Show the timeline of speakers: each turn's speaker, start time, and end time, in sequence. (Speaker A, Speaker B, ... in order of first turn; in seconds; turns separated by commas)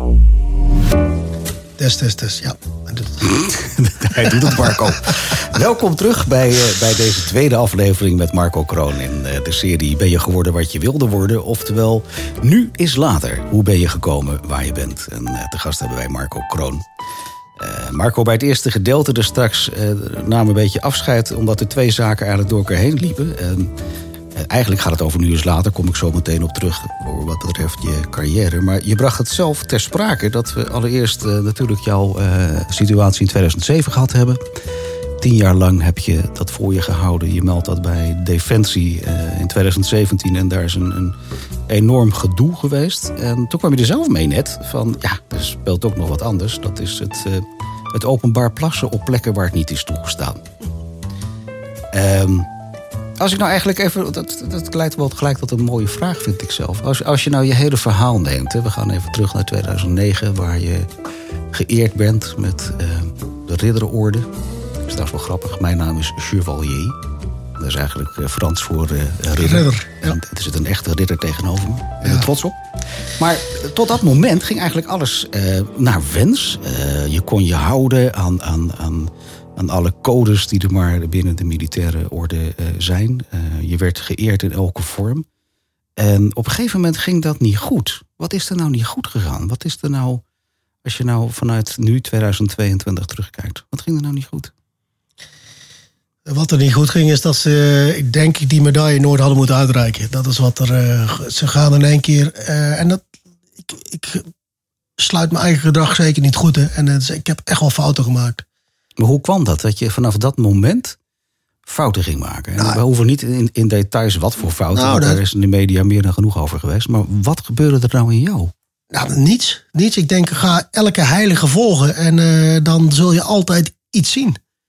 Speaker A: 1.8-3.4, Speaker B: 3.2-16.8, Speaker A: 4.3-4.8, Speaker B: 17.6-23.7, Speaker B: 24.3-34.5, Speaker B: 35.2-41.1, Speaker B: 41.7-50.4, Speaker B: 51.9-52.5, Speaker B: 53.2-60.9, Speaker B: 61.5-64.3, Speaker B: 64.8-67.0, Speaker B: 67.6-72.6, Speaker A: 69.4-70.2, Speaker A: 72.0-72.3, Speaker B: 73.2-85.2, Speaker B: 86.0-90.2, Speaker B: 90.8-94.5, Speaker A: 96.2-103.0, Speaker A: 103.6-104.2, Speaker A: 105.0-108.4, Speaker B: 109.0-111.0, Speaker B: 111.7-118.5, Speaker A: 114.7-115.2, Speaker A: 118.9-124.4